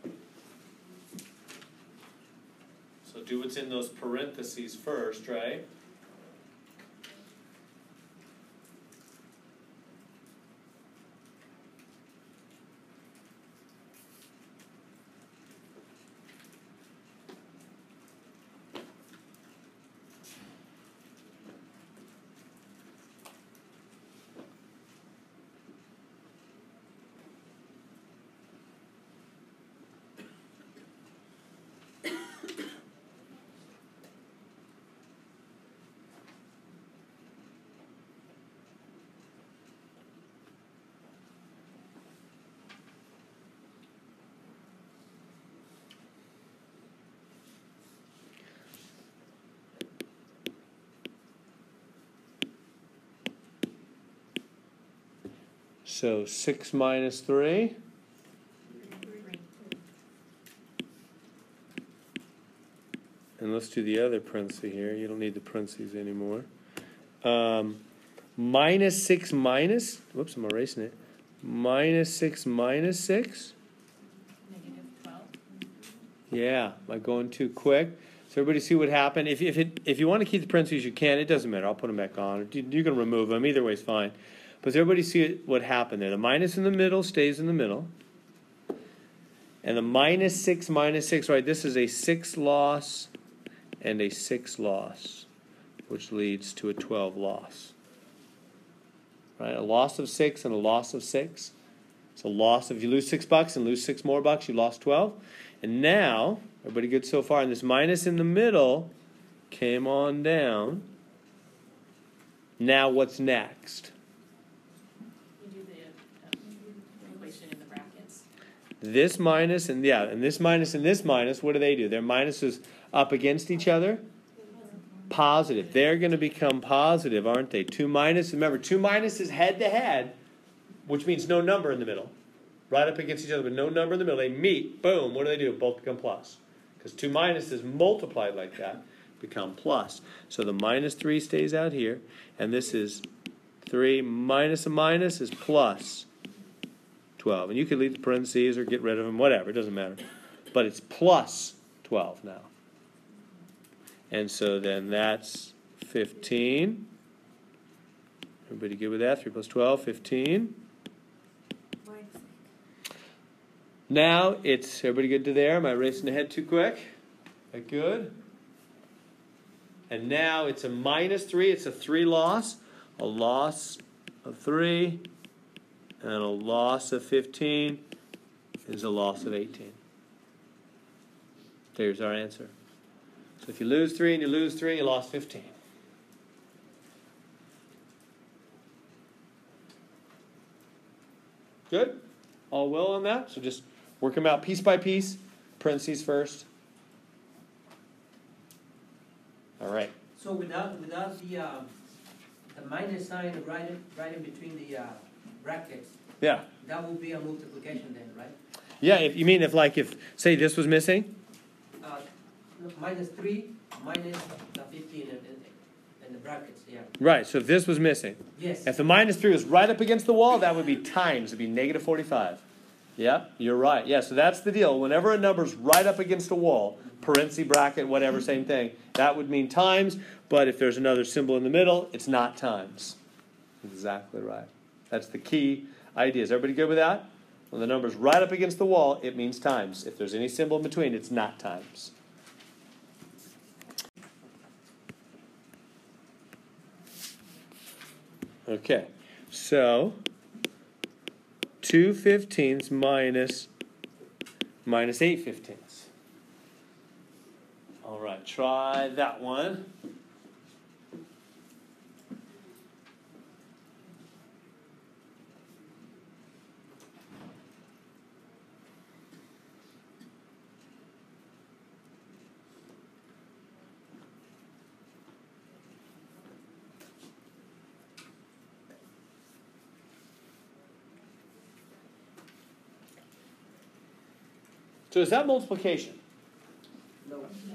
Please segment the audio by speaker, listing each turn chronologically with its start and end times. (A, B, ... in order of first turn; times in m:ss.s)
0:03.0-0:05.6 A
0:55.8-0:57.8 A
0:58.8-0:59.5 B
1:03.4-1:06.5 A
1:07.2-1:07.8 A
1:08.4-1:13.5 A
1:14.4-1:15.3 B
1:16.3-1:27.9 A
1:29.6-1:33.1 A
1:33.8-1:35.3 A
1:35.9-1:37.7 A
1:39.4-1:41.5 A
1:42.2-1:48.9 A
1:49.5-1:50.9 A
1:52.6-1:53.9 A
1:55.4-1:58.2 B
1:58.8-2:04.0 A
2:04.4-2:04.8 B
2:05.1-2:10.2 A
2:10.9-2:12.1 A
2:12.7-2:23.0 A
2:23.6-2:26.1 A
2:27.2-2:32.5 A
2:34.1-2:36.9 A
2:38.5-2:40.6 A
2:41.8-2:42.3 B
2:43.9-2:46.9 A
2:47.5-2:48.2 A
2:49.9-2:55.1 A
2:56.0-2:57.8 A
2:58.7-2:59.8 A
3:01.7-3:02.5 A
3:03.4-3:05.5 A
3:11.7-3:12.0 A
3:12.5-3:16.4 A
3:19.6-3:19.9 A
3:20.2-3:21.7 C
3:22.5-3:26.0 C
3:26.2-3:26.4 A
3:26.6-3:28.4 C
3:28.8-3:31.1 A
3:32.6-3:36.9 C
3:37.0-3:42.4 A
3:38.4-3:38.7 C
3:43.0-3:53.0 A
3:53.6-4:01.9 A
4:08.5-4:10.0 A
4:11.6-4:13.5 A
4:14.6-4:15.9 A
4:17.8-4:19.7 A
4:44.9-4:46.0 A
4:47.0-4:47.4 C